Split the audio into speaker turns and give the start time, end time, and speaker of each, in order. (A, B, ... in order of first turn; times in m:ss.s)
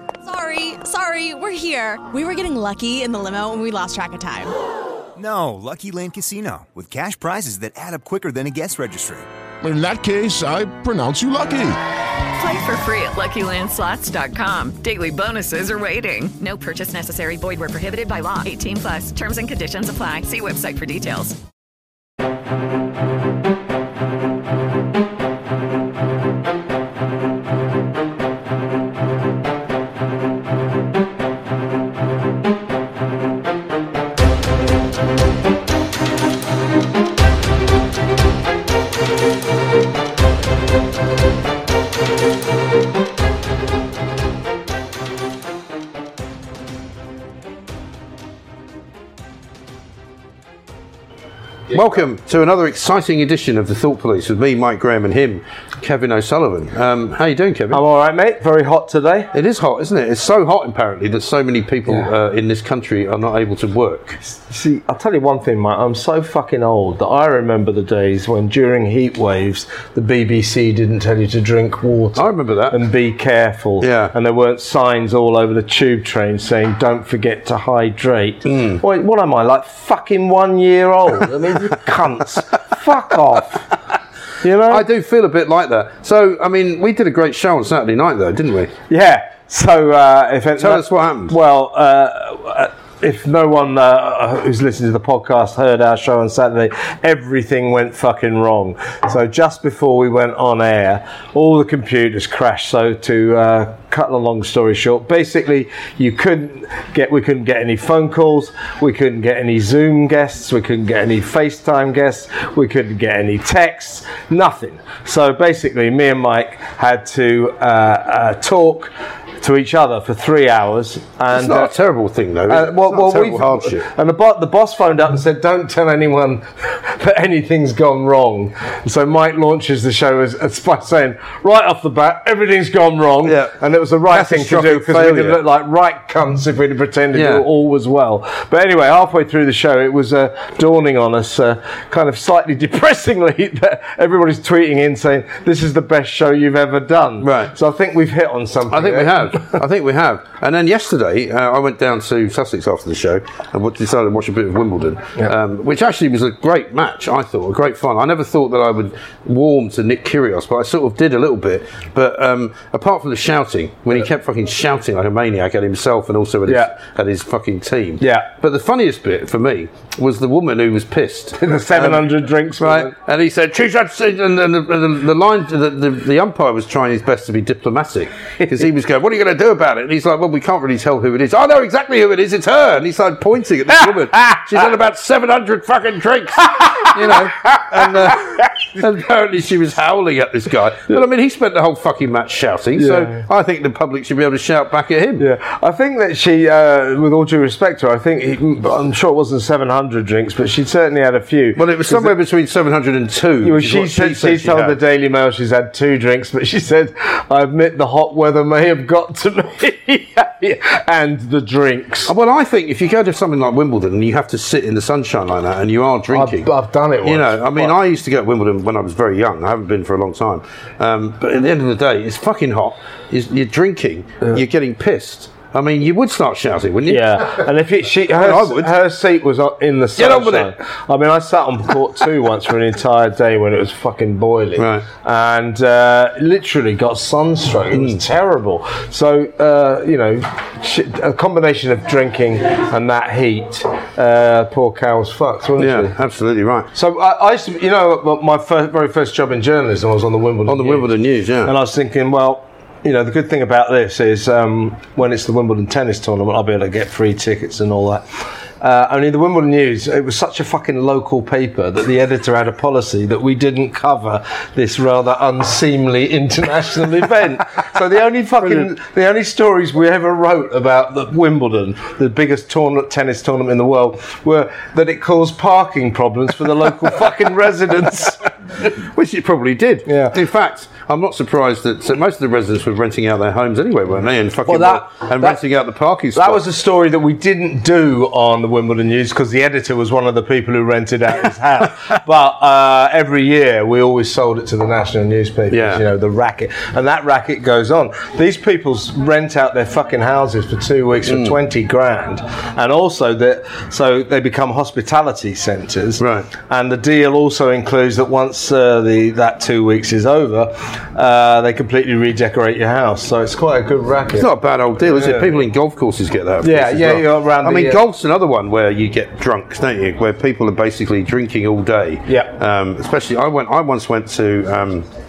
0:00.2-0:04.5 A
0:05.2-0:09.3 B
0:09.6-0:11.8 C
0:12.3-0:21.4 D
0:51.7-0:57.8 E
0:57.7-0:59.3 F
0:59.3-1:04.2 E
1:04.2-1:23.7 F
1:12.2-1:12.8 E
1:13.8-1:14.1 E
1:18.5-1:18.8 E
1:24.4-1:24.9 F
1:24.6-1:28.7 E
1:28.9-2:01.7 F
1:30.6-1:31.4 E
2:01.3-2:03.9 E
2:02.5-2:29.6 F
2:13.2-2:13.6 E
2:14.1-2:15.4 E
2:17.1-2:17.4 E
2:27.2-2:27.5 E
2:28.7-2:52.1 E
2:46.5-2:46.7 F
2:48.0-2:48.3 F
2:51.4-2:52.9 F
2:52.6-3:15.3 E
3:06.6-3:08.5 F
3:12.8-3:13.2 F
3:15.2-3:22.2 F
3:21.6-3:24.8 E
3:23.4-3:32.1 F
3:32.1-3:36.5 E
3:36.1-3:37.8 F
3:37.0-3:47.5 E
3:46.9-4:06.0 F
3:48.0-3:48.7 E
3:50.0-3:50.5 E
3:54.6-3:54.9 E
3:57.7-3:58.0 E
4:05.6-4:06.7 E
4:06.7-4:10.9 F
4:10.5-4:11.5 E
4:11.4-4:38.3 F
4:28.4-4:28.7 E
4:38.6-4:46.4 E
4:39.9-4:40.2 F
4:44.5-4:45.4 F
4:46.1-5:15.4 F
4:55.5-4:55.8 E
5:01.1-5:01.4 E
5:06.0-5:06.3 E
5:14.1-5:24.9 E
5:16.4-5:17.8 F